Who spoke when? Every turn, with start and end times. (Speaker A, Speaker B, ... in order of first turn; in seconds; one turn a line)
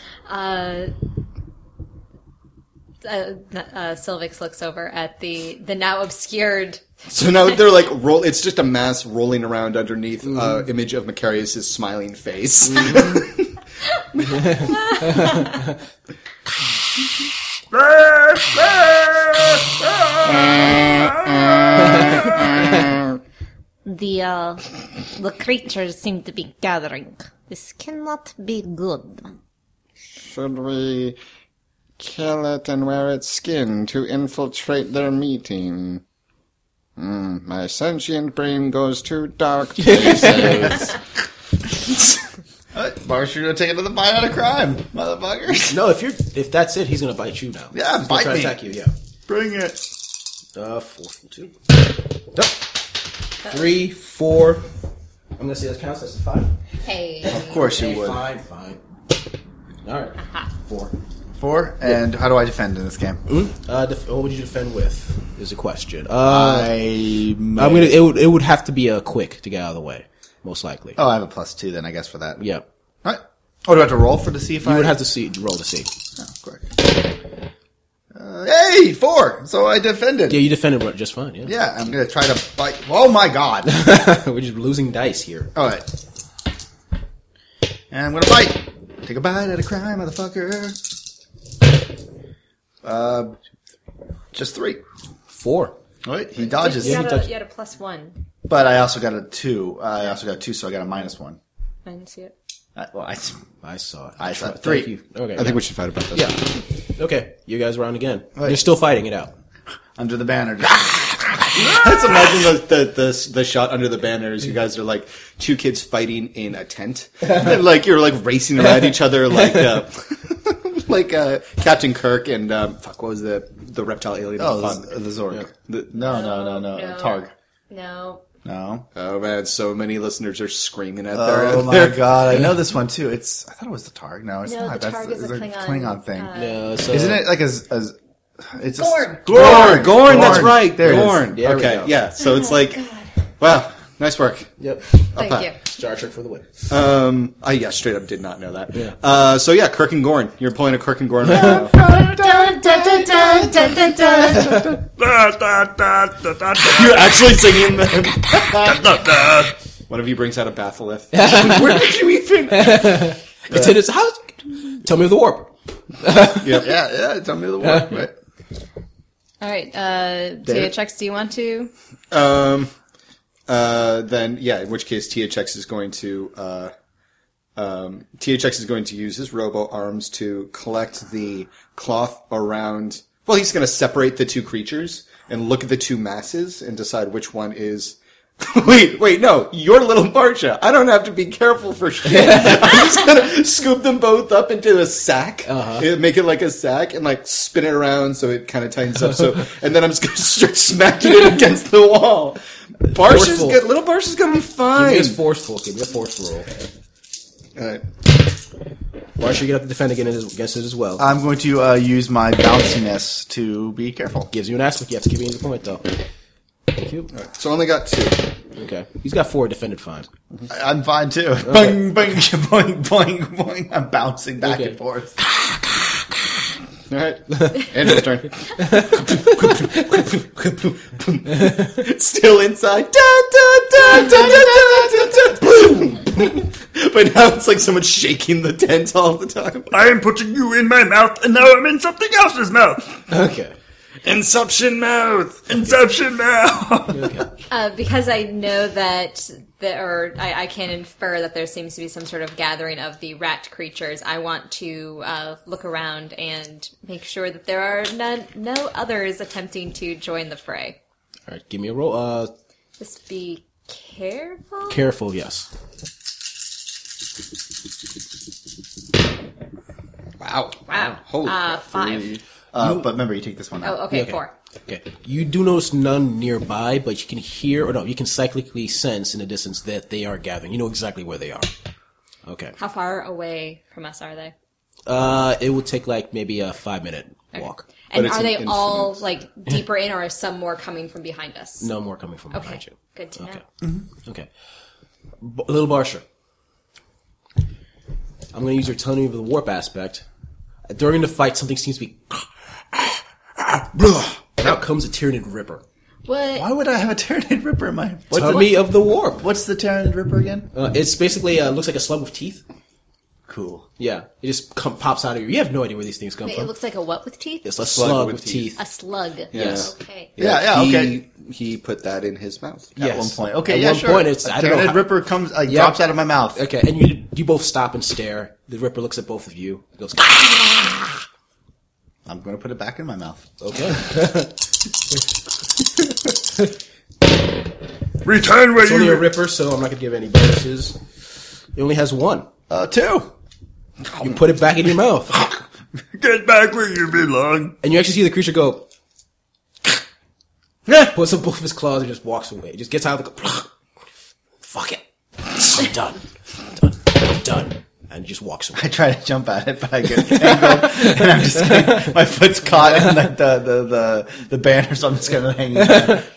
Speaker A: 0.3-0.9
Speaker A: 3.0-6.8
Speaker B: 7.1-13.6
Speaker C: 12.8-13.2
Speaker B: 14.1-14.7
Speaker C: 14.2-15.7
Speaker D: 17.7-22.6
Speaker E: 20.4-23.1
Speaker F: 23.9-29.3
Speaker E: 30.2-31.2
Speaker E: 32.0-36.0
Speaker E: 37.0-41.0
Speaker C: 39.8-40.9
Speaker G: 42.7-45.8
Speaker C: 45.7-48.9
Speaker G: 47.7-48.6
Speaker G: 49.3-49.9
Speaker C: 50.5-51.7
Speaker C: 52.3-52.8
Speaker C: 53.4-54.7
Speaker C: 55.4-56.5
Speaker A: 56.8-57.6
Speaker C: 57.2-58.8
Speaker G: 57.3-58.2
Speaker C: 59.8-60.9
Speaker G: 61.4-63.2
Speaker C: 63.3-66.7
Speaker G: 66.2-68.0
Speaker C: 67.6-71.0
Speaker G: 71.0-72.4
Speaker C: 72.4-72.7
Speaker G: 73.0-75.0
Speaker C: 74.6-75.9
Speaker G: 76.2-76.8
Speaker G: 78.1-80.4
Speaker C: 80.3-81.5
Speaker G: 81.5-83.8
Speaker C: 83.7-85.5
Speaker G: 85.5-85.9
Speaker G: 87.9-90.8
Speaker G: 92.8-93.4
Speaker G: 94.3-94.8
Speaker C: 95.3-95.8
Speaker G: 96.0-97.1
Speaker A: 96.4-98.2
Speaker C: 96.8-97.3
Speaker G: 98.5-101.4
Speaker A: 101.8-102.3
Speaker G: 102.8-103.4
Speaker C: 103.6-109.3
Speaker G: 104.2-104.9
Speaker B: 105.4-106.3
Speaker G: 110.0-112.4
Speaker B: 111.8-124.9
Speaker G: 124.4-127.3
Speaker B: 125.7-126.0
Speaker A: 126.0-128.2
Speaker G: 128.4-128.9
Speaker B: 128.9-132.2
Speaker G: 131.1-136.3
Speaker A: 134.4-136.7
Speaker C: 136.3-137.3
Speaker G: 136.9-141.3
Speaker A: 138.8-139.2
Speaker B: 139.3-142.8
Speaker C: 139.9-142.0
Speaker A: 142.2-143.1
Speaker B: 143.4-144.5
Speaker C: 144.6-144.9
Speaker B: 145.1-145.5
Speaker A: 145.1-145.6
Speaker C: 145.6-146.5
Speaker B: 146.7-154.8
Speaker C: 151.3-151.6
Speaker C: 154.3-154.7
Speaker D: 155.0-157.4
Speaker B: 156.6-158.8
Speaker D: 158.5-159.6
Speaker B: 159.9-163.1
Speaker C: 161.1-166.6
Speaker B: 166.4-166.7
Speaker G: 166.5-168.1
Speaker C: 167.6-168.0
Speaker A: 169.4-171.7
Speaker G: 170.4-170.7
Speaker B: 172.1-172.7
Speaker B: 173.5-176.7
Speaker B: 177.6-205.2
Speaker C: 192.1-192.8
Speaker C: 195.5-195.9
Speaker C: 202.9-203.7
Speaker C: 204.8-206.5
Speaker B: 207.6-207.8
Speaker C: 209.2-211.1
Speaker G: 211.0-214.3
Speaker C: 214.3-216.0
Speaker C: 216.7-217.1
Speaker B: 217.1-218.3
Speaker C: 218.6-220.1
Speaker G: 220.5-225.2
Speaker C: 221.5-221.7
Speaker C: 224.4-224.8
Speaker B: 226.9-239.7
Speaker C: 228.6-230.0
Speaker D: 239.7-242.9
Speaker C: 243.1-243.6
Speaker B: 244.0-245.5
Speaker D: 245.5-247.3
Speaker C: 246.9-247.3
Speaker A: 247.5-260.8
Speaker C: 261.3-262.3
Speaker A: 262.8-264.8
Speaker C: 264.7-265.5
Speaker B: 270.2-272.2
Speaker A: 270.7-272.2
Speaker G: 272.5-273.9
Speaker C: 272.6-272.9
Speaker A: 273.6-274.3
Speaker C: 273.9-281.5
Speaker C: 282.3-282.6
Speaker A: 282.6-284.3
Speaker C: 284.9-287.7
Speaker A: 287.4-291.7
Speaker B: 287.9-289.0
Speaker C: 291.6-293.4
Speaker A: 292.3-293.4
Speaker C: 295.2-296.1
Speaker C: 298.3-300.1
Speaker C: 300.7-305.6
Speaker A: 306.1-306.5
Speaker G: 306.4-308.6
Speaker C: 308.1-309.2
Speaker G: 309.1-310.5
Speaker C: 310.5-312.4
Speaker G: 313.3-313.7
Speaker C: 313.8-316.5
Speaker A: 316.3-317.4
Speaker C: 317.4-318.6
Speaker B: 317.6-318.6
Speaker F: 318.6-319.3
Speaker B: 319.3-322.8
Speaker C: 319.3-319.7
Speaker A: 319.5-320.1
Speaker G: 320.2-321.0
Speaker G: 322.8-326.4
Speaker C: 322.8-330.9
Speaker G: 332.1-333.3
Speaker C: 333.4-334.3
Speaker D: 338.0-339.1
Speaker C: 338.6-340.8
Speaker C: 341.6-342.3
Speaker G: 342.5-343.1
Speaker C: 344.0-345.2
Speaker D: 345.9-347.6
Speaker C: 347.6-348.7
Speaker C: 350.8-353.5
Speaker C: 354.4-358.7
Speaker G: 358.6-366.0
Speaker C: 360.6-361.5